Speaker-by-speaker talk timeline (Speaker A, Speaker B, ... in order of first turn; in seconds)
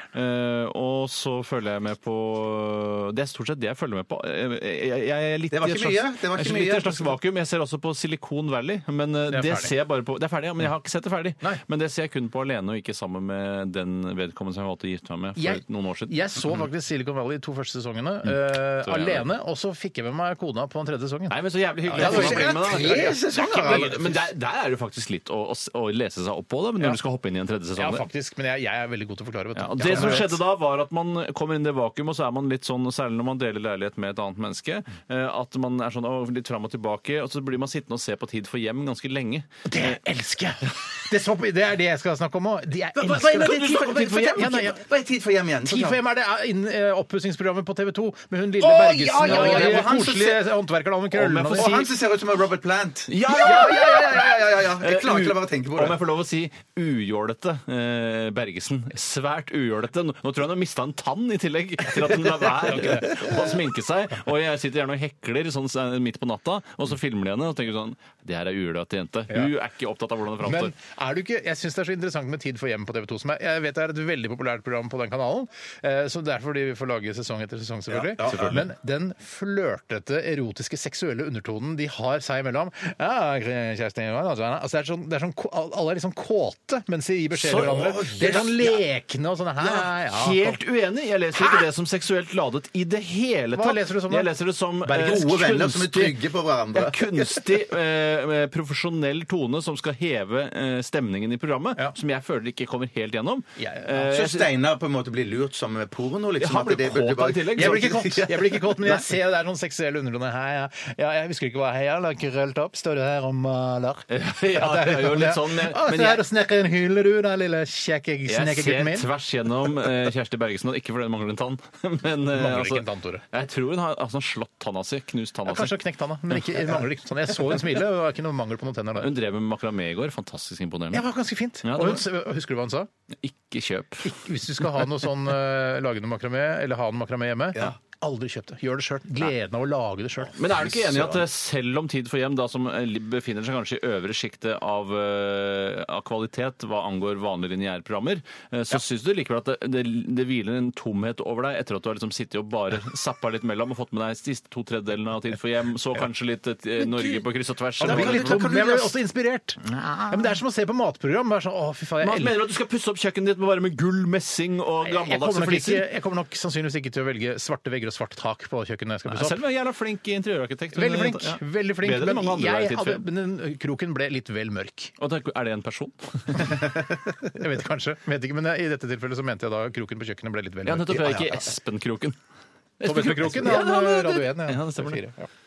Speaker A: 0.1-16.3, 18.3-19.3, 21.3-28.1, 29.6-40.0, 43.3-44.0, 49.2-50.0, 51.1-51.9, 53.1-70.7, 78.3-78.6, 87.4-88.7, 89.6-96.2, 96.7-104.5, 106.4-107.9, 114.1-116.2, 118.3-125.8, 126.3-126.8, 129.0-131.1, 131.6-132.1, 133.2-134.1, 140.4-158.4, 159.7-160.3, 162.0-165.9, 169.1-173.0, 175.0-176.6, 180.7-182.2, 182.8-185.0
Speaker B: 5.5-7.2, 21.9-24.2, 43.0-46.0, 48.6-50.5, 51.5-56.0, 77.9-78.7, 87.5-88.7, 94.9-97.4, 103.9-109.0, 140.6-141.2, 157.8-158.9, 180.9-181.5
Speaker C: 9.3-9.7, 15.4-21.4, 21.9-23.2, 27.8-30.4, 39.7-44.8, 45.6-51.8, 62.6-63.3, 70.4-90.6, 93.5-94.3, 103.6-103.9, 107.6-119.1, 122.3-123.2, 125.5-129.1, 130.9-132.9, 134.0-140.3, 157.8-162.4, 164.8-169.4, 170.8-174.9, 177.3-181.0, 182.8-185.3